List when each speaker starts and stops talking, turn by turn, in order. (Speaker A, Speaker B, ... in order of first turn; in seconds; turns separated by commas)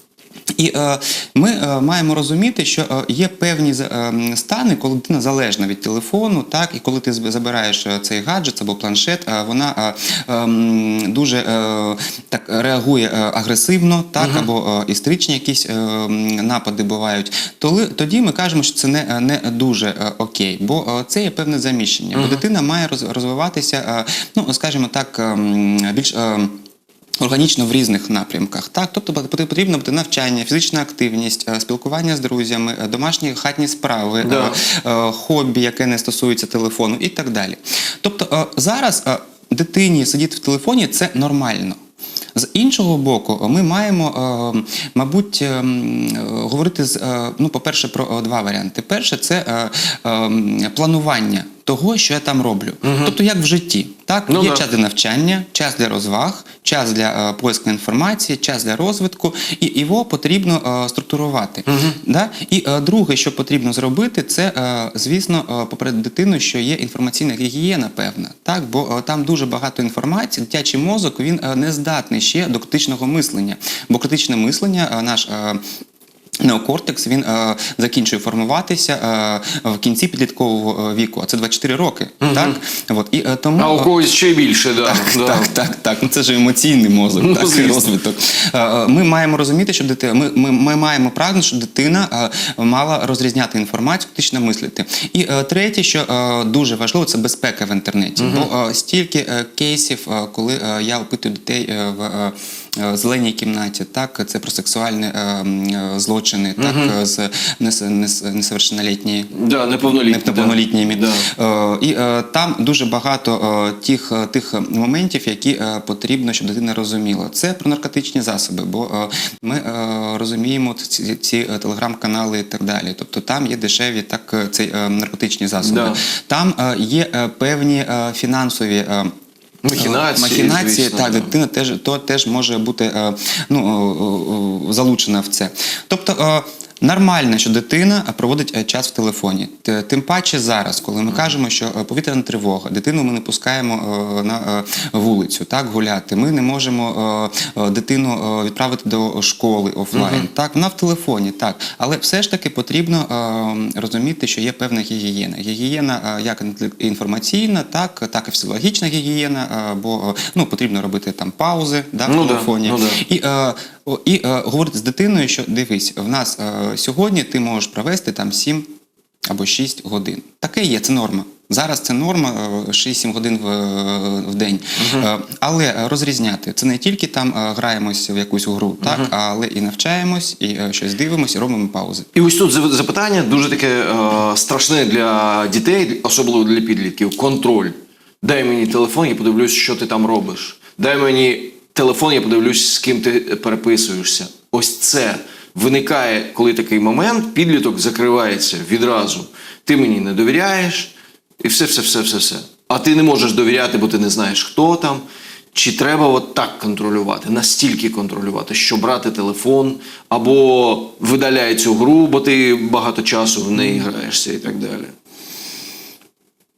Speaker A: 0.6-26.6, Speaker B: 14.2-14.5, Speaker B: 22.1-22.4, Speaker A: 27.2-41.8, Speaker B: 34.2-34.6, Speaker A: 42.3-75.6, Speaker B: 52.8-53.1, Speaker B: 54.3-54.6, Speaker B: 61.7-62.0, Speaker A: 76.4-83.9, Speaker B: 82.2-82.6, Speaker B: 83.6-85.5, Speaker A: 84.8-109.3, Speaker B: 87.2-87.9, Speaker B: 98.2-98.5, Speaker B: 106.6-106.9, Speaker B: 109.3-111.3, Speaker A: 109.8-129.1, Speaker B: 125.6-126.0, Speaker B: 129.6-131.3, Speaker A: 129.7-168.7, Speaker B: 149.9-150.3, Speaker B: 162.1-163.0, Speaker A: 169.3-182.1, Speaker B: 174.8-175.1, Speaker B: 178.8-179.1, Speaker B: 182.1-214.9